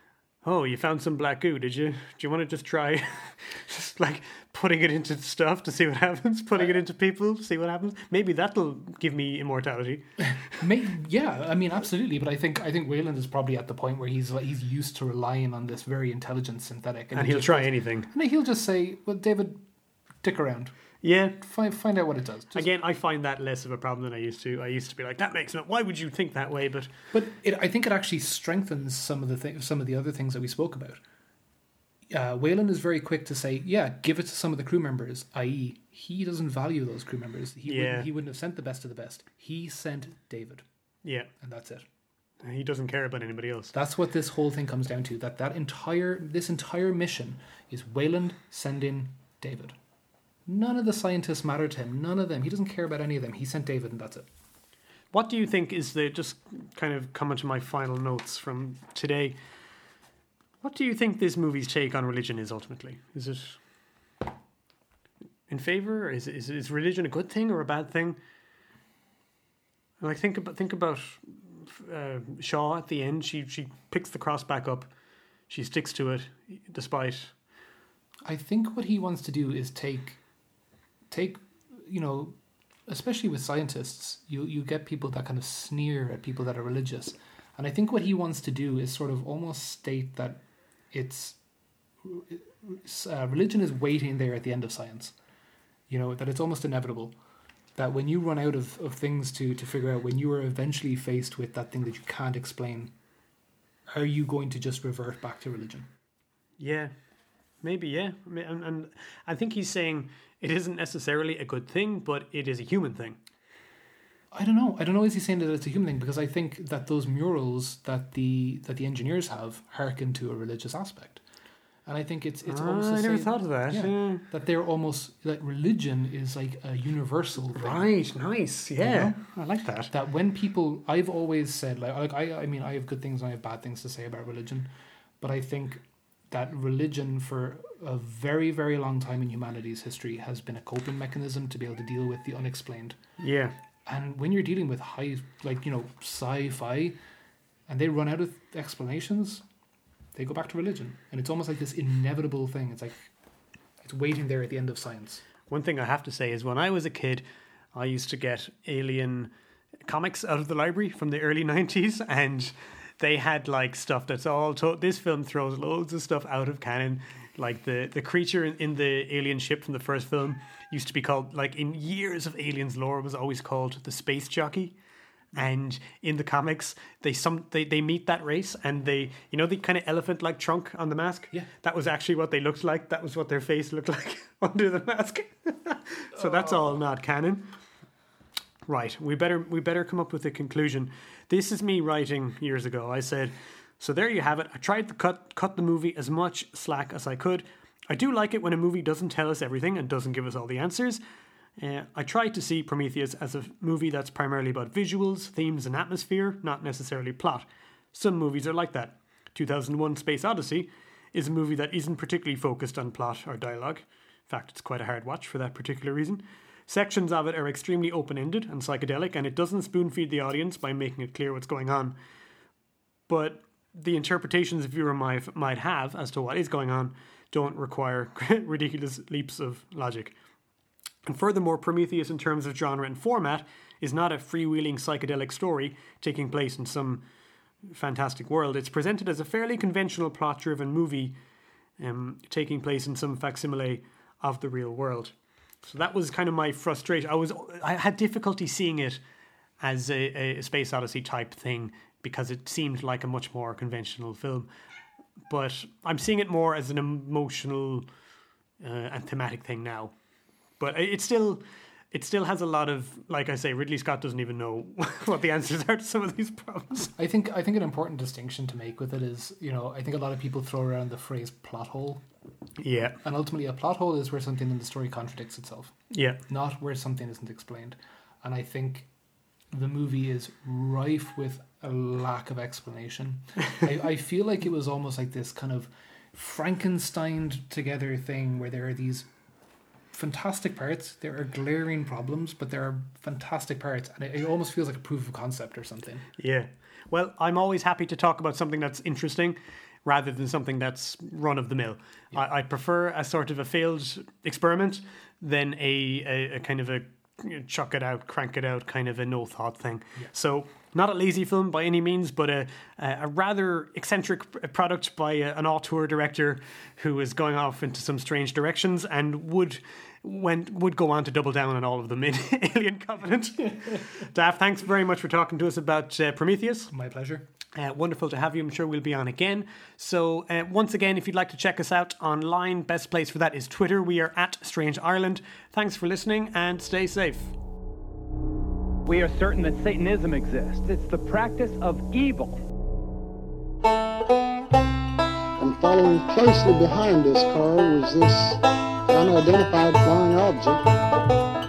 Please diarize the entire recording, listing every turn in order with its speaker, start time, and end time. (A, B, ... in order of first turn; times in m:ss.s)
0:00.4-0:10.6 A
0:10.5-0:19.6 B
0:17.1-0:18.1 A
0:20.2-0:20.7 B
0:21.0-0:21.4 A
0:21.4-0:22.6 B
0:22.5-0:26.9 A
0:27.1-0:31.0 B
0:32.1-0:40.6 B
0:37.6-0:38.1 A
0:41.0-0:41.3 A
0:41.4-0:41.8 B
0:42.4-0:43.7 A
0:43.7-0:49.8 B
0:50.4-0:54.3 B
0:55.1-0:59.4 A
1:00.6-1:03.6 A
1:05.5-1:08.2 A
1:10.0-1:14.9 A
1:15.5-1:17.3 A
1:18.2-1:20.2 B
1:21.1-1:31.4 B
1:32.0-1:35.1 B
1:35.9-1:37.2 B
1:37.7-1:42.9 B
1:43.9-1:45.9 B
1:46.6-1:46.9 A
1:47.6-1:53.2 A
1:54.3-2:01.2 B
2:01.8-2:07.9 B
2:02.5-2:04.2 A
2:07.5-2:09.9 A
2:08.8-2:09.2 B
2:09.9-2:23.0 B
2:23.2-2:23.5 A
2:23.8-2:27.0 B
2:27.7-2:29.4 B
2:30.1-2:33.1 B
2:33.8-2:35.2 B
2:35.5-2:39.3 A
2:39.8-2:54.8 A
2:55.3-3:07.5 A
3:06.2-3:06.7 B
3:08.7-3:21.0 A
3:21.6-3:42.0 A
3:43.1-3:50.1 A
3:51.0-3:57.0 A
3:57.7-4:01.2 A
4:01.8-4:05.1 A
4:05.6-4:09.0 A
4:09.6-4:14.5 A
4:15.3-4:17.9 A
4:18.6-4:19.9 A
4:20.6-4:26.9 A
4:27.0-4:32.0 B
4:32.6-4:33.0 A
4:33.0-4:35.8 B
4:35.9-4:36.2 A
4:36.3-4:38.9 B
4:39.5-4:49.1 B
4:49.9-4:56.1 B
4:56.2-5:26.7 A
5:26.7-5:27.3 B
5:27.5-5:37.3 A
5:38.8-5:42.4 C
5:45.4-5:50.6 D